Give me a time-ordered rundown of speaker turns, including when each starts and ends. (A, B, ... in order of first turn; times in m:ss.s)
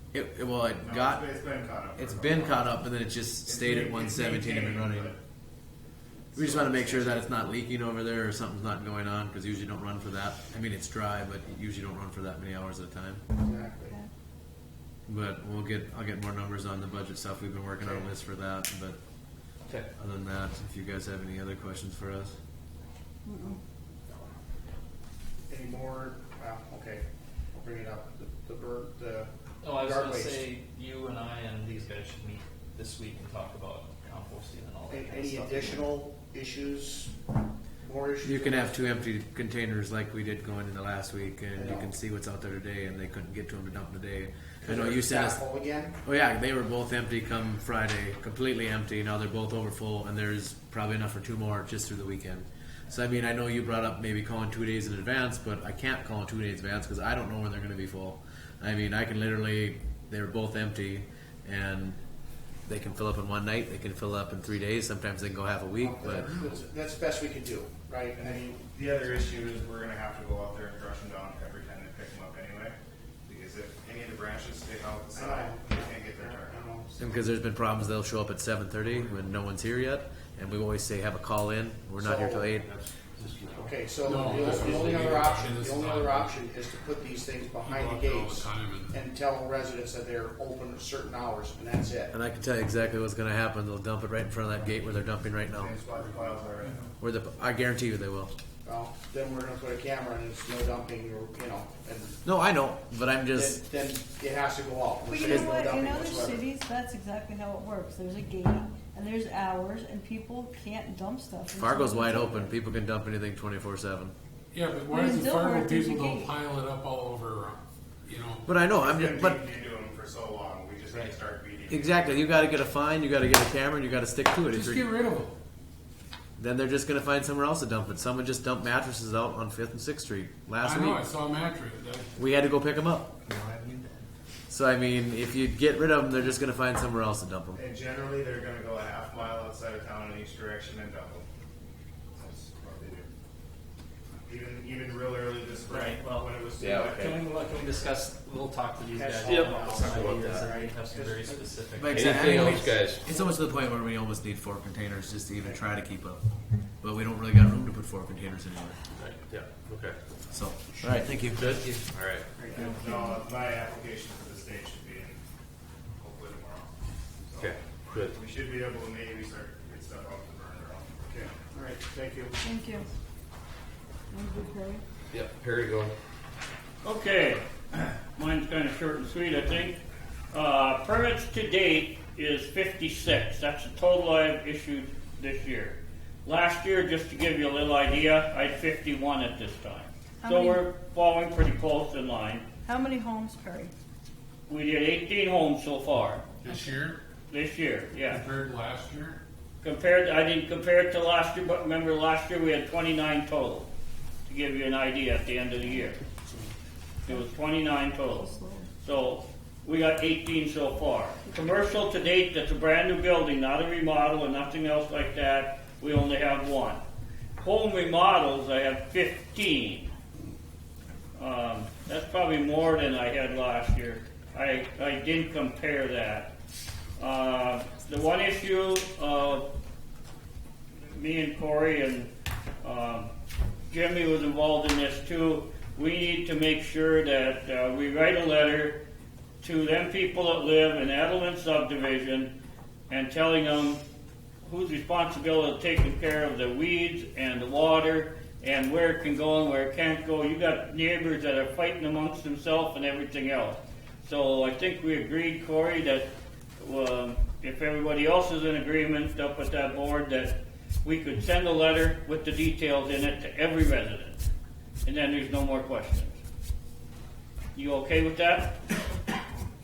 0:00.1-0:01.2 A
0:00.8-0:02.8 B
0:02.0-0:05.1 A
0:03.5-0:05.2 B
0:06.3-0:13.2 A
0:06.4-0:07.2 B
0:13.4-0:14.0 C
0:15.1-0:19.0 A
0:17.8-0:18.1 C
0:20.0-0:22.3 A
0:23.3-0:23.6 D
0:25.5-0:27.0 C
0:27.6-0:30.4 C
0:29.6-0:35.9 E
0:34.9-0:37.1 C
0:37.8-0:38.8 C
0:38.2-0:45.4 A
0:41.6-0:41.9 C
0:44.6-0:46.0 C
0:46.0-1:02.0 A
1:02.7-1:06.3 A
1:05.8-1:08.6 C
1:08.2-1:16.6 B
1:15.1-1:17.0 C
1:17.0-1:22.7 A
1:22.0-1:22.5 C
1:22.6-1:24.9 F
1:23.6-1:32.1 C
1:24.0-1:26.4 G
1:27.6-1:29.0 G
1:32.1-1:35.8 A
1:35.5-1:36.9 B
1:35.9-1:36.5 G
1:37.0-1:38.3 A
1:38.6-1:42.2 C
1:42.2-1:43.6 A
1:43.3-1:46.4 C
1:45.1-1:52.6 D
1:51.6-1:54.1 A
1:54.5-1:58.4 G
1:54.9-1:56.3 D
1:58.4-1:59.4 A
1:58.7-2:02.2 B
2:01.7-2:04.9 A
2:04.5-2:05.3 G
2:06.4-2:11.0 A
2:10.6-2:12.1 G
2:12.2-2:13.1 A
2:13.2-2:14.1 E
2:14.5-2:17.6 A
2:17.5-2:21.2 B
2:22.2-2:23.1 B
2:24.2-2:27.9 B
2:25.7-2:32.2 E
2:26.6-2:27.2 F
2:29.0-2:31.4 C
2:29.2-2:30.5 F
2:31.8-2:36.2 A
2:31.9-2:33.0 F
2:36.8-2:38.8 A
2:39.0-2:40.0 F
2:40.3-2:41.4 A
2:41.3-2:41.9 E
2:41.4-2:42.3 F
2:42.4-2:42.7 C
2:42.5-2:43.2 D
2:42.5-2:45.2 B
2:46.0-2:46.7 B
2:47.2-2:50.9 B
2:47.4-2:48.2 F
2:51.1-2:52.3 C
2:52.4-2:52.9 D
2:54.1-2:54.8 D
2:55.1-2:55.9 F
2:56.8-2:57.4 H
2:58.1-2:59.8 H
3:00.3-3:12.4 H
3:10.2-3:10.7 D
3:12.6-3:13.7 D
3:14.5-3:16.2 H
3:16.4-3:17.0 G
3:17.3-3:18.2 H
3:18.1-3:19.2 G
3:19.6-3:23.7 H
3:24.3-3:26.0 H
3:27.1-3:28.3 H
3:28.0-3:28.7 D
3:28.8-3:36.8 H
3:37.4-3:39.9 H
3:41.2-3:46.3 H
3:47.0-3:49.5 H
3:50.9-3:52.1 H
3:52.6-3:53.1 H
3:53.7-3:58.8 H
3:59.4-4:02.4 H
4:02.9-4:03.8 H
4:04.4-4:24.2 H
4:24.8-4:26.2 H
4:27.6-4:28.6 H